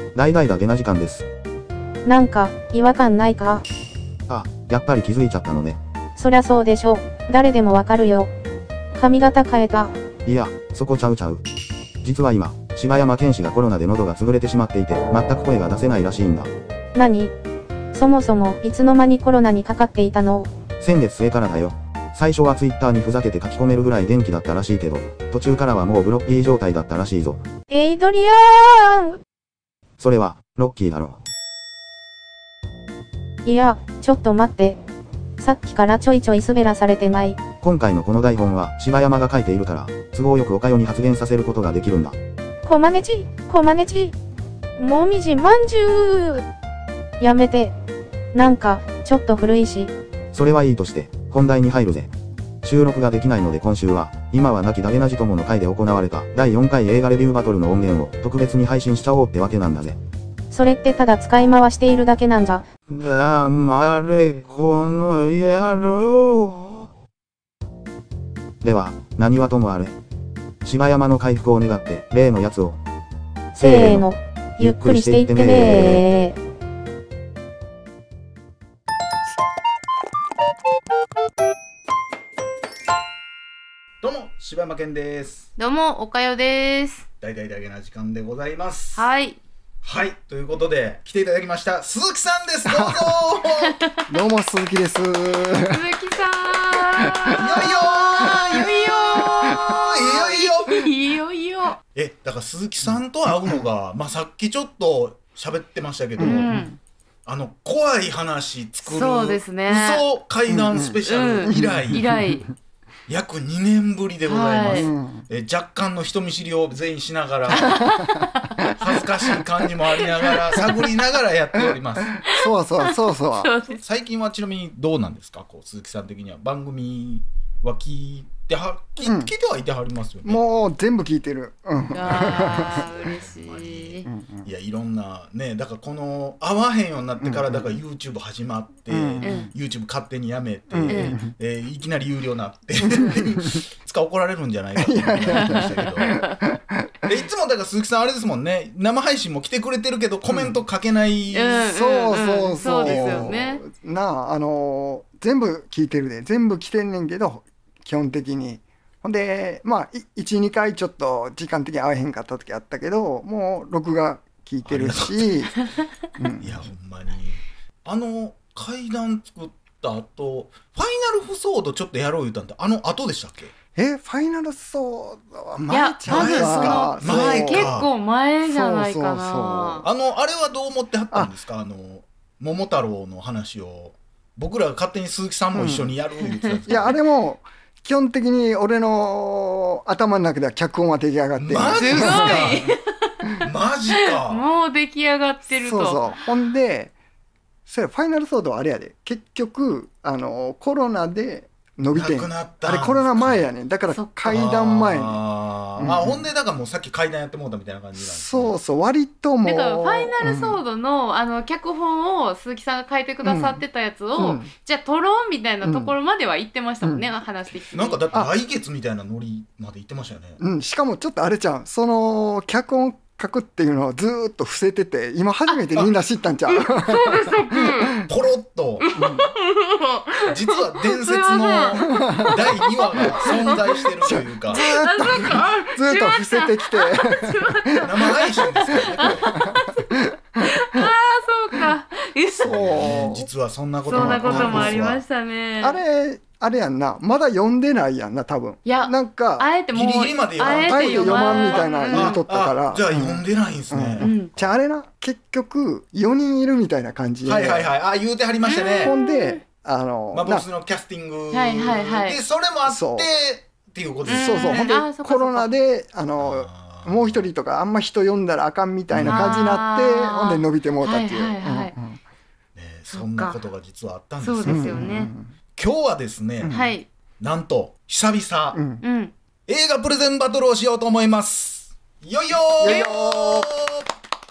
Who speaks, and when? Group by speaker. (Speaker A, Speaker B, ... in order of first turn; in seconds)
Speaker A: 0.1-1.3, 4.3-5.8, 10.2-11.4, 12.0-16.5, 20.8-27.4, 30.0-31.2, 37.5-42.2, 50.3-52.1, 52.6-60.0, 62.9-66.9, 68.6-70.0, 70.6-72.8, 73.6-74.1, 74.6-76.0
Speaker B: 2.0-3.6, 6.2-8.3, 8.9-9.9, 16.9-17.3, 17.9-20.5, 27.7-29.2, 33.4-34.8, 35.4-37.5, 42.6-44.1, 44.8-46.4, 47.2-47.7, 48.3-49.9, 60.5-62.7, 73.5-76.4
Speaker C: 84.0-85.5, 87.2-89.1, 89.8-93.8, 97.4-100.9, 101.9-106.5, 107.2-112.1, 113.1-118.0, 118.7-122.2, 123.7-130.4, 132.0-146.1, 147.1-151.7, 152.8-153.4, 164.6-165.6, 166.4-173.5, 176.1-177.9, 179.8-187.0, 191.4-192.8, 193.4-194.4, 201.9-203.5, 204.2-208.6, 217.7-220.4, 228.1-229.0, 230.2-235.3, 237.8-239.4, 242.4-245.0, 249.7-254.6, 257.2-258.9, 260.1-264.7, 266.1-267.3, 268.9-269.6, 272.6-274.9, 275.5-276.6, 277.2-278.6, 279.5-283.9
Speaker D: 85.6-87.0, 88.9-89.4, 95.7-101.8, 106.2-106.8, 108.8-110.0, 111.0-112.5, 114.2-114.9, 117.5-118.7, 120.2-120.6, 122.3-123.8, 131.9-134.1, 139.2-139.5, 140.9-141.2, 145.5-146.4, 151.3-153.6, 175.7-179.8, 186.4-186.9, 191.7-192.8, 193.9-196.1, 209.4-218.0, 226.5-228.0, 228.8-242.7, 243.8-245.8, 248.6-252.2, 254.0-254.3, 258.4-259.4, 261.3-262.2, 264.0-265.5, 269.1-271.7, 272.9-273.4, 274.2-275.1, 276.5-276.9, 278.8-279.1
Speaker E: 92.6-93.2, 94.1-95.8, 97.1-98.7, 99.3-99.8, 103.3-103.6, 106.2-106.8, 110.5-112.5, 114.7-115.2, 117.5-118.2, 121.5-123.5, 129.0-129.3, 130.2-132.8, 134.1-134.5, 137.2-137.7, 138.9-139.5, 140.7-141.3, 142.9-143.5, 144.8-147.1, 150.3-150.6, 151.7-165.5, 166.2-166.6, 173.7-177.7, 178.4-179.8, 185.5-185.9, 186.7-192.6, 195.5-196.9, 197.7-205.2, 205.8-206.3, 208.0-210.6, 213.2-213.6, 214.2-214.5, 215.6-215.9, 216.8-217.1, 220.4-228.1, 229.0-229.3, 231.8-232.4, 233.0-233.3, 234.0-237.9, 238.7-240.9, 242.4-243.3, 243.9-244.8, 245.6-249.5, 250.4-257.7, 258.8-260.4, 262.7-263.1, 264.1-272.0, 274.4-275.3, 276.4-276.7, 278.5-278.8, 282.5-283.5